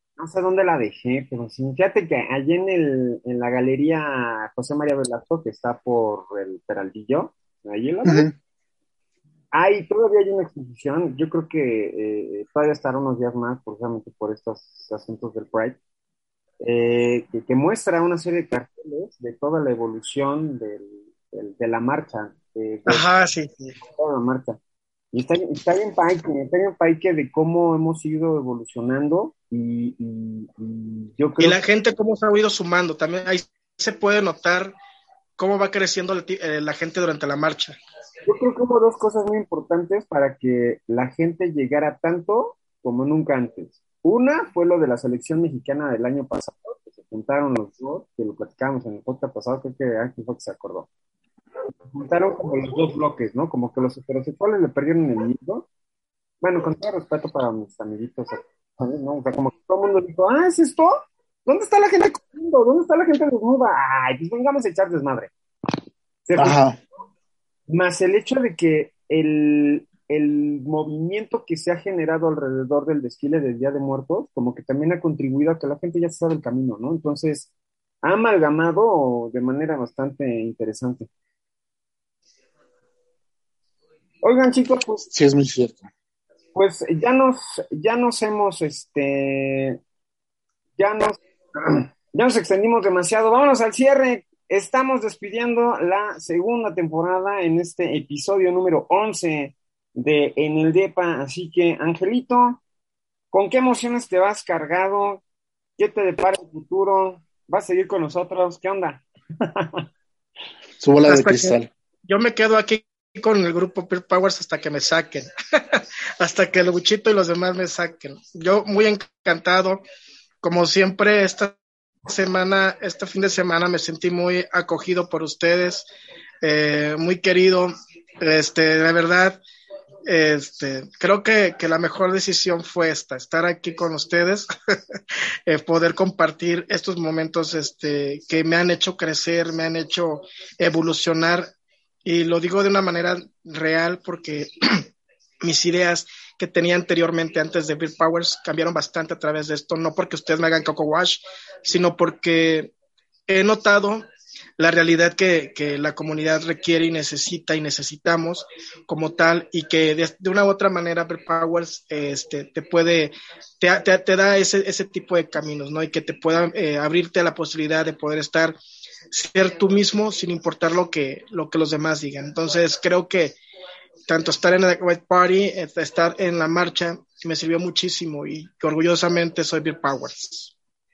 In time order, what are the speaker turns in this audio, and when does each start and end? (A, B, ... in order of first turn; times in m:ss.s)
0:00.2-0:08.3 A
0:08.0-0:08.3 B
0:09.5-0:15.8 A
0:16.6-0:23.0 A
0:22.9-0:23.8 C
0:23.8-0:24.6 A
0:25.1-0:31.6 A
0:31.4-0:34.8 C
0:35.4-0:37.8 C
0:38.3-0:50.9 A
0:51.9-0:55.7 A
0:56.4-1:05.3 A
1:06.3-1:06.6 A
1:06.4-1:06.8 B
1:07.7-1:17.5 A
1:18.0-1:21.1 A
1:24.2-1:25.1 A
1:25.1-1:25.9 B
1:26.6-1:29.8 A
1:30.8-1:42.6 A
1:43.3-1:45.2 A
1:45.8-1:49.8 A
1:50.8-1:51.7 B
1:51.1-1:51.6 C
1:52.1-1:59.8 C
2:00.4-2:01.6 C
2:02.1-2:05.9 C
2:06.4-2:09.4 C
2:10.1-2:14.5 C
2:15.5-2:21.5 C
2:22.0-2:24.8 C
2:25.4-2:32.7 C
2:33.3-2:34.0 C
2:34.6-2:48.6 C
2:49.1-2:53.4 C
2:54.1-3:00.5 C